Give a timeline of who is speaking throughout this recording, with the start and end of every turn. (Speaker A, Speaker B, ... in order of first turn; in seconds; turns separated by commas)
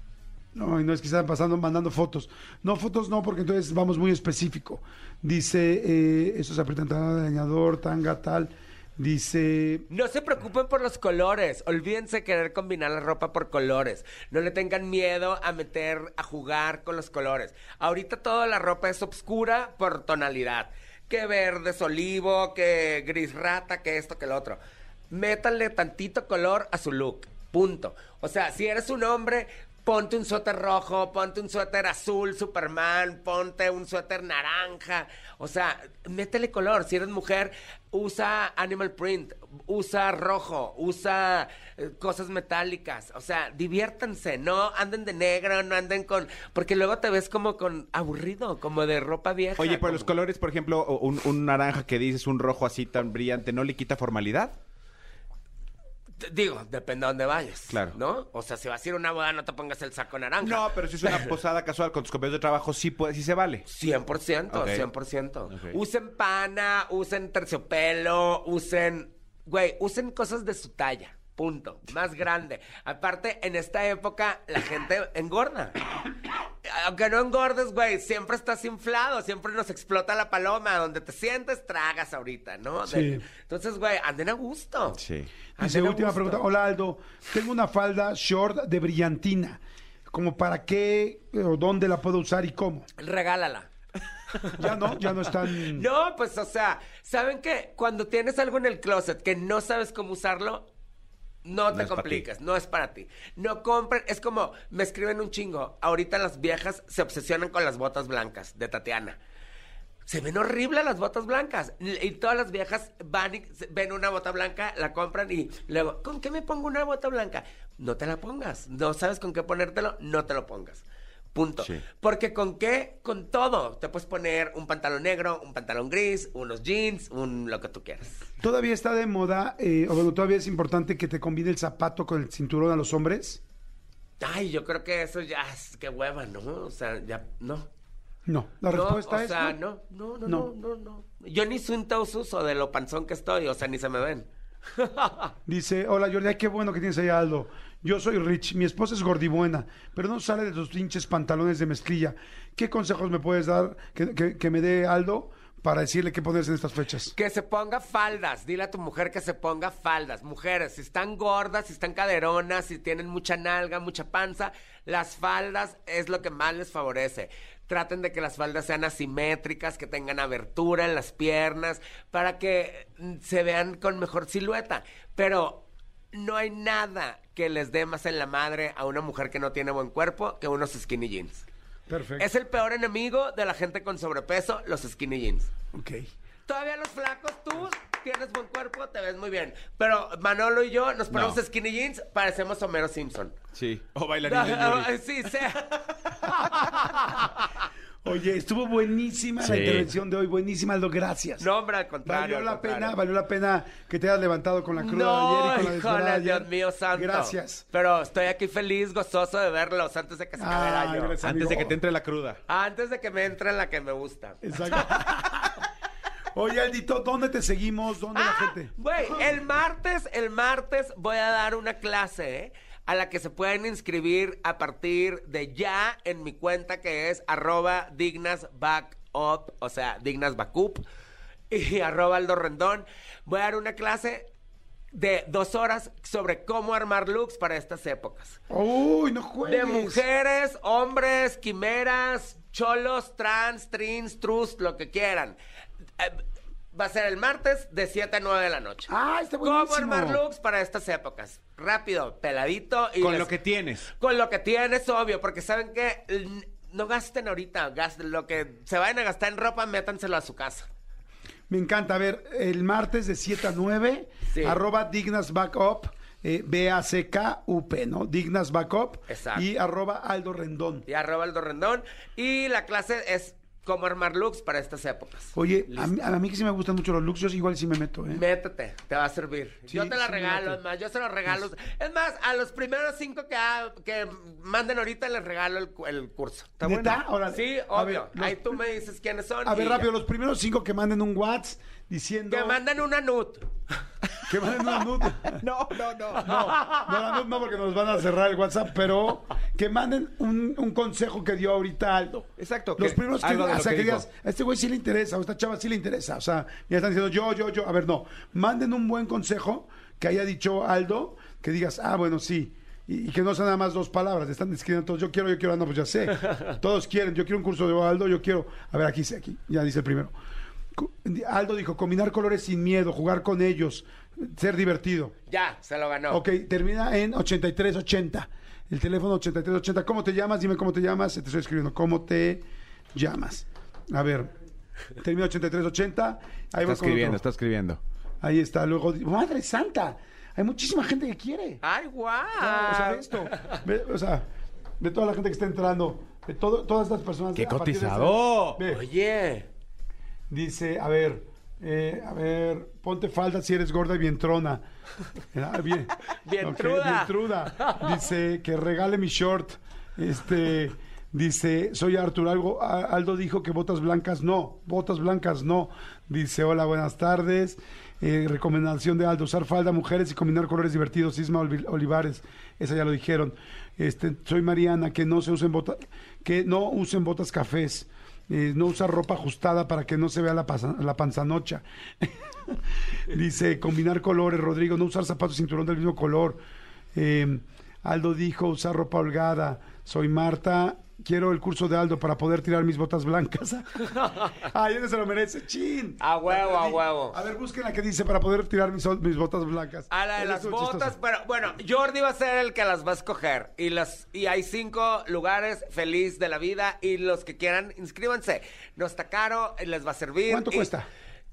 Speaker A: 0.5-9.9, Speaker B: 9.9-24.6, Speaker B: 25.1-50.1, Speaker C: 49.6-54.5, Speaker B: 56.2-61.3, Speaker C: 57.7-58.0, Speaker C: 60.4-63.6, Speaker B: 63.7-75.8, Speaker C: 64.5-64.9, Speaker C: 65.5-65.8, Speaker B: 76.6-85.0, Speaker A: 82.9-83.2, Speaker C: 85.0-85.3, Speaker B: 85.6-86.5, Speaker A: 85.6-92.9, Speaker B: 93.0-93.7, Speaker B: 94.3-94.7, Speaker A: 94.6-95.9, Speaker B: 95.5-100.7, Speaker B: 101.5-109.2, Speaker C: 101.7-102.2, Speaker B: 110.1-128.2, Speaker A: 128.4-133.4, Speaker B: 134.2-137.7, Speaker A: 138.3-139.6, Speaker B: 138.7-145.3, Speaker A: 145.5-157.1, Speaker B: 157.2-181.4, Speaker A: 181.9-182.3, Speaker B: 182.2-185.5, Speaker A: 185.7-186.1, Speaker B: 186.5-193.4, Speaker C: 191.1-191.4, Speaker C: 193.5-194.9, Speaker B: 194.3-197.7, Speaker A: 198.0-201.5, Speaker C: 199.4-199.9, Speaker B: 201.4-203.0, Speaker A: 202.1-207.6, Speaker B: 204.8-211.2, Speaker A: 210.4-211.8, Speaker C: 211.2-212.4, Speaker B: 212.5-215.1, Speaker A: 214.4-215.6, Speaker A: 216.3-219.3, Speaker B: 218.1-230.8, Speaker B: 231.5-234.3, Speaker B: 234.9-238.4, Speaker A: 238.5-240.0, Speaker B: 239.4-245.4, Speaker B: 246.0-248.9, Speaker A: 248.9-250.2, Speaker B: 249.4-253.3, Speaker C: 253.0-253.9, Speaker B: 253.9-260.7, Speaker A: 261.5-270.9, Speaker B: 264.3-264.6, Speaker B: 269.1-269.5, Speaker B: 270.9-275.9, Speaker A: 275.4-278.2, Speaker B: 278.1-289.9, Speaker A: 279.7-280.6, Speaker A: 286.6-288.6, Speaker A: 289.4-292.6, Speaker B: 292.3-293.5, Speaker C: 294.1-296.5, Speaker A: 294.3-295.4, Speaker A: 296.2-320.1, Speaker B: 296.3-296.9, Speaker C: 302.4-304.1, Speaker A: 320.8-325.1, Speaker B: 325.3-326.2, Speaker A: 326.1-334.3, Speaker A: 335.0-337.2, Speaker C: 336.6-337.8, Speaker A: 338.2-341.6, Speaker B: 341.6-343.6, Speaker A: 342.4-344.2, Speaker A: 344.8-348.8, Speaker C: 347.4-348.6, Speaker B: 348.7-349.5, Speaker A: 350.3-354.6, Speaker A: 355.3-386.4, Speaker B: 356.2-358.0, Speaker A: 386.9-393.8, Speaker B: 393.8-394.4, Speaker A: 394.4-401.0, Speaker B: 396.0-397.2, Speaker B: 399.9-410.7, Speaker A: 410.3-410.9